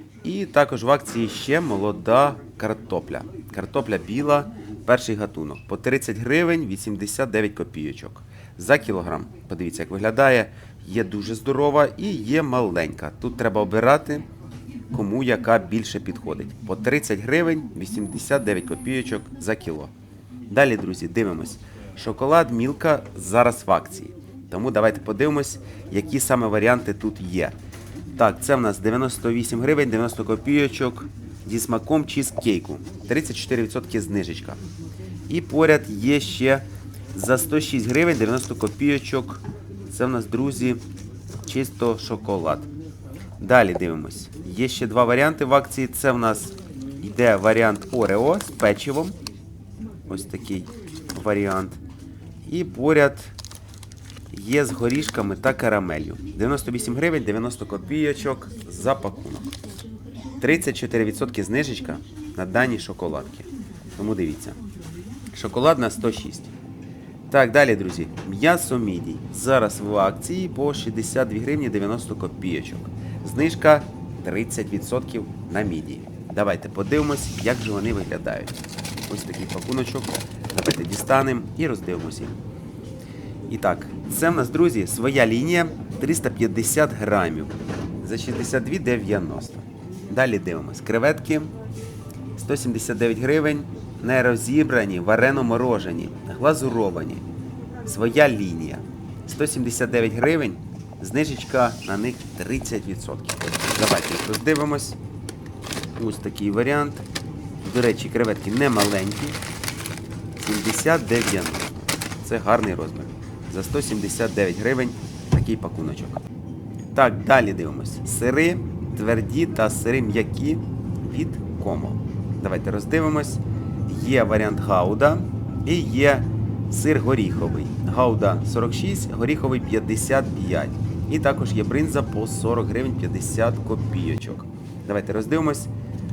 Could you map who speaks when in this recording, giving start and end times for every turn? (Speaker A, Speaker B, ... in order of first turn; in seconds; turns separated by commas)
Speaker A: 0.2-14.3, Speaker A: 14.9-19.9, Speaker A: 20.5-27.6, Speaker A: 28.1-34.6, Speaker A: 35.3-40.8, Speaker A: 41.4-42.7, Speaker A: 43.4-49.1, Speaker A: 50.1-51.8, Speaker A: 52.4-53.3, Speaker A: 54.3-59.5, Speaker A: 60.4-64.6, Speaker A: 65.3-66.5, Speaker A: 67.3-82.4, Speaker A: 83.5-91.5, Speaker A: 92.3-97.2, Speaker A: 97.8-105.0, Speaker A: 106.0-107.0, Speaker A: 107.6-109.4, Speaker A: 110.4-116.2, Speaker A: 116.9-135.7